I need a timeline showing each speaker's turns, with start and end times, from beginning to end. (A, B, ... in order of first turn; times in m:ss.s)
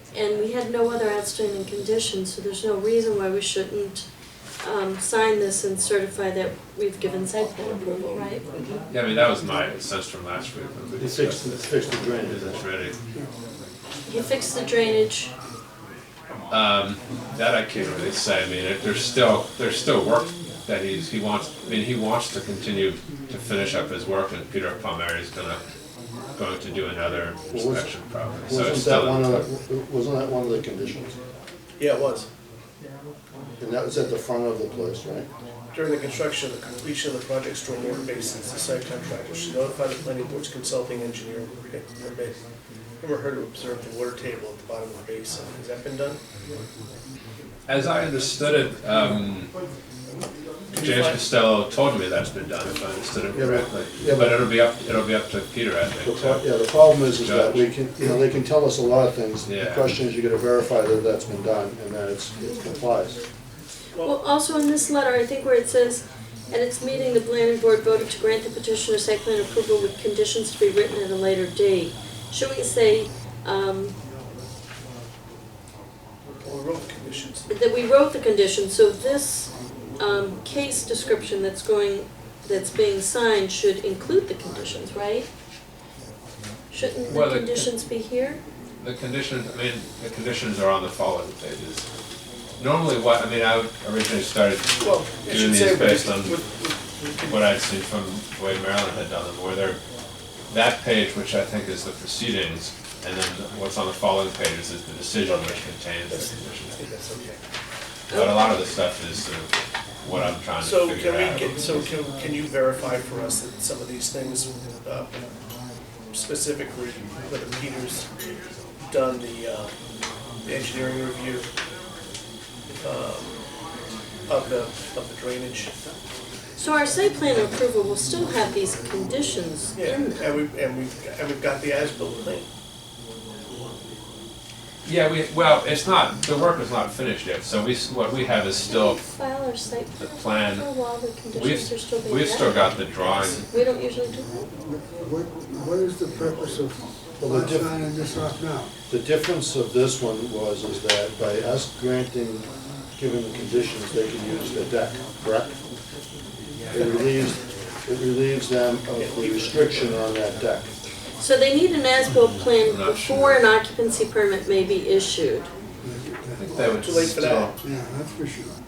0:00.1-0:04.0 A
0:04.6-0:08.4 A
0:08.9-0:13.0 B
0:11.0-0:12.6 C
0:14.1-0:15.3 A
0:16.5-0:25.6 B
0:26.4-0:29.5 B
0:27.5-0:27.9 C
0:28.5-0:31.2 C
0:31.8-0:32.3 D
0:33.6-0:35.3 C
0:35.7-0:42.4 D
0:43.0-0:46.2 D
0:47.7-0:49.5 B
0:50.7-0:51.2 D
0:50.8-0:56.5 B
0:53.3-0:54.5 C
0:56.0-1:03.2 C
0:57.1-0:57.7 B
0:59.4-0:59.9 B
1:04.0-1:13.9 A
1:16.4-1:17.5 D
1:17.5-1:25.3 A
1:26.7-1:28.4 A
1:27.1-1:27.7 B
1:28.8-1:31.9 B
1:32.6-1:36.4 B
1:34.8-1:37.5 D
1:37.2-1:39.8 B
1:40.5-1:46.8 B
1:45.2-1:47.4 D
1:48.1-1:48.6 A
1:48.1-1:49.5 B
1:50.0-1:51.9 B
1:50.6-1:55.2 D
1:56.1-1:58.1 D
1:58.9-1:59.7 D
2:00.4-2:01.5 D
2:02.8-2:03.4 D
2:04.3-2:05.7 D
2:06.6-2:10.3 A
2:09.8-2:12.5 D
2:14.8-2:19.0 B
2:18.7-2:22.7 A
2:20.0-2:20.7 B
2:21.3-2:23.4 B
2:23.5-2:24.3 A
2:24.3-2:28.7 E
2:27.2-2:27.7 C
2:28.9-2:32.5 C
2:33.0-2:35.5 C
2:36.7-2:40.7 C
2:39.0-2:40.0 D
2:41.2-2:45.5 A
2:42.7-2:43.4 B
2:45.8-2:46.8 E
2:46.4-2:47.6 B
2:46.8-2:47.6 D
2:47.6-2:48.6 E